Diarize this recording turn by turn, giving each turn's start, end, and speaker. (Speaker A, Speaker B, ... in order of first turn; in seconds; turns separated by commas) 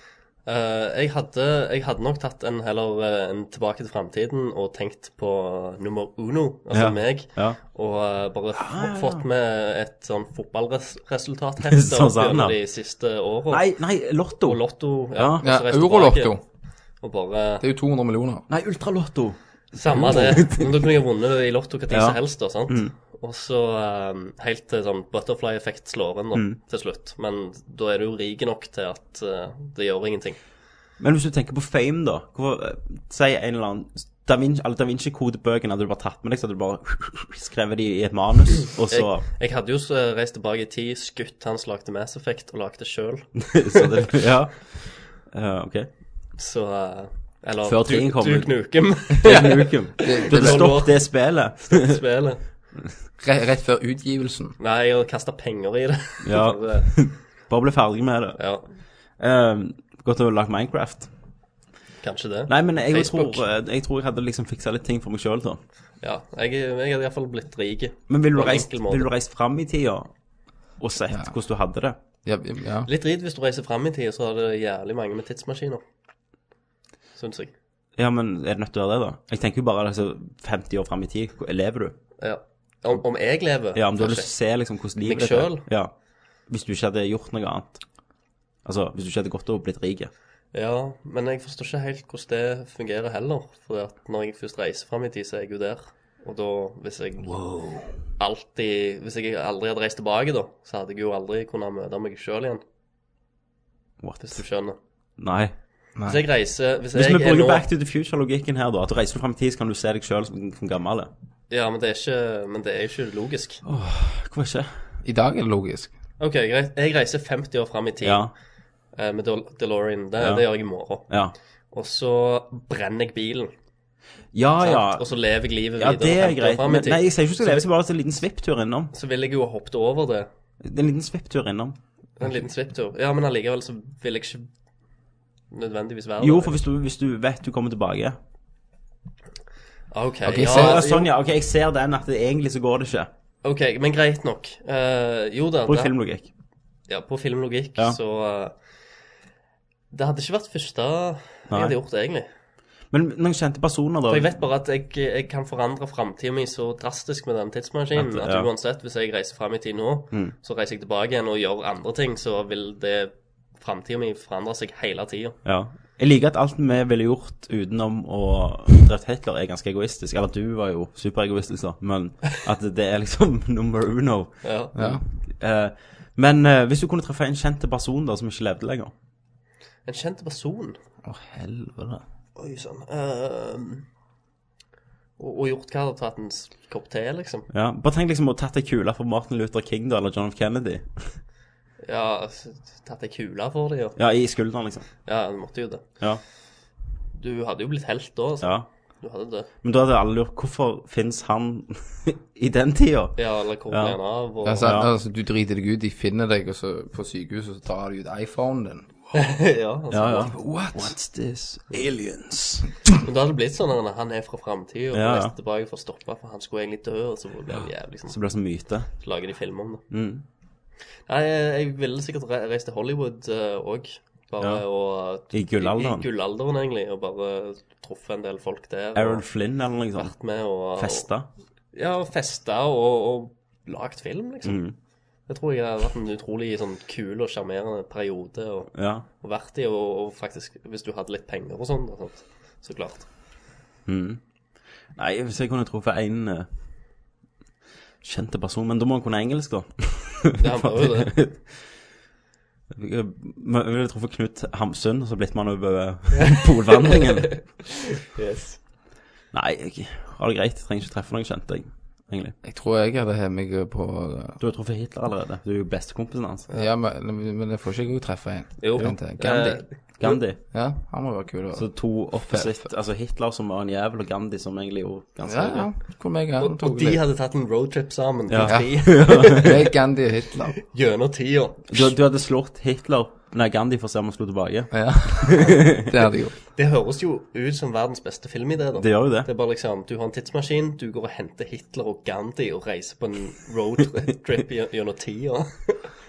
Speaker A: 0.5-13.7, Speaker B: 6.7-7.6, Speaker B: 8.6-9.2, Speaker B: 11.7-12.6, Speaker B: 13.5-14.6, Speaker A: 14.4-16.4, Speaker B: 15.2-15.4, Speaker C: 15.4-16.4, Speaker A: 17.0-17.6, Speaker C: 17.6-18.4, Speaker B: 18.5-20.9, Speaker A: 19.8-30.4, Speaker B: 21.9-22.9, Speaker B: 31.0-39.2, Speaker A: 38.9-43.9, Speaker B: 43.4-45.9, Speaker A: 46.4-52.4, Speaker B: 47.6-52.0, Speaker C: 50.0-50.8, Speaker C: 53.2-54.6, Speaker A: 54.6-57.0, Speaker B: 56.2-58.4, Speaker A: 58.4-58.6, Speaker B: 59.2-61.1, Speaker A: 62.0-63.4, Speaker B: 62.5-65.6, Speaker A: 66.0-69.1, Speaker B: 68.1-70.1, Speaker B: 70.8-72.0, Speaker C: 72.2-72.9, Speaker A: 72.9-75.8, Speaker A: 77.2-77.5, Speaker B: 78.0-82.0, Speaker A: 82.2-84.3, Speaker B: 83.8-85.9, Speaker A: 85.0-85.7, Speaker B: 86.5-87.8, Speaker B: 88.7-90.1, Speaker A: 90.5-97.5, Speaker C: 97.5-97.9, Speaker A: 98.2-102.6, Speaker B: 104.0-104.4, Speaker A: 104.2-104.8, Speaker B: 105.2-105.5, Speaker C: 106.0-106.2, Speaker A: 106.1-107.7, Speaker B: 106.9-111.1, Speaker A: 111.5-113.6, Speaker B: 113.7-114.7, Speaker C: 115.0-115.9, Speaker A: 116.2-118.3, Speaker B: 118.0-118.3, Speaker A: 119.0-121.1, Speaker B: 120.2-120.5, Speaker B: 121.1-121.3, Speaker A: 121.7-123.5, Speaker B: 124.3-125.1, Speaker A: 124.6-127.7, Speaker B: 125.8-128.9, Speaker A: 128.9-130.3, Speaker B: 130.6-131.8, Speaker A: 132.2-134.5, Speaker A: 135.5-136.6, Speaker B: 136.2-138.2, Speaker A: 139.9-141.1, Speaker C: 140.3-140.8, Speaker B: 140.4-143.1, Speaker A: 143.4-145.9, Speaker B: 145.7-146.3, Speaker A: 146.9-148.6, Speaker A: 149.9-152.3, Speaker B: 151.5-151.8, Speaker B: 152.9-154.4, Speaker A: 154.1-165.4, Speaker B: 157.9-158.5, Speaker B: 165.4-178.9, Speaker A: 174.4-174.8, Speaker C: 174.8-175.0, Speaker A: 179.9-180.8, Speaker C: 181.1-182.0, Speaker A: 182.4-183.8, Speaker A: 185.2-187.5, Speaker B: 187.5-191.1, Speaker A: 191.8-194.0, Speaker B: 194.0-194.9, Speaker A: 195.1-195.8, Speaker A: 197.2-199.5, Speaker B: 199.6-203.2, Speaker A: 203.2-204.7, Speaker B: 203.7-204.0, Speaker C: 204.4-208.9, Speaker B: 204.6-204.9, Speaker A: 209.1-210.4, Speaker B: 209.9-212.6, Speaker C: 210.3-210.9, Speaker A: 213.0-218.2, Speaker B: 214.9-215.3, Speaker B: 218.1-218.9, Speaker A: 218.9-219.8, Speaker B: 219.9-220.2, Speaker A: 221.1-229.2, Speaker B: 225.3-226.1, Speaker B: 228.9-230.1, Speaker A: 230.0-231.1, Speaker B: 230.8-231.3, Speaker A: 231.7-234.6, Speaker B: 234.4-234.8, Speaker A: 235.3-243.1, Speaker B: 238.8-239.0, Speaker B: 243.9-244.2, Speaker B: 244.9-246.5, Speaker B: 248.0-251.6, Speaker A: 250.4-251.2, Speaker B: 252.7-257.4, Speaker A: 256.1-258.6, Speaker B: 259.3-262.4, Speaker C: 262.4-264.4, Speaker B: 264.4-266.5, Speaker C: 266.5-269.6, Speaker A: 268.6-270.2, Speaker B: 270.0-270.4, Speaker C: 270.4-272.7, Speaker B: 271.6-275.7, Speaker C: 275.2-277.0, Speaker A: 276.4-279.7, Speaker B: 278.3-279.5, Speaker C: 278.4-280.6, Speaker A: 280.6-281.9, Speaker B: 281.7-285.9, Speaker C: 284.7-286.4, Speaker A: 286.6-295.9, Speaker B: 288.8-289.3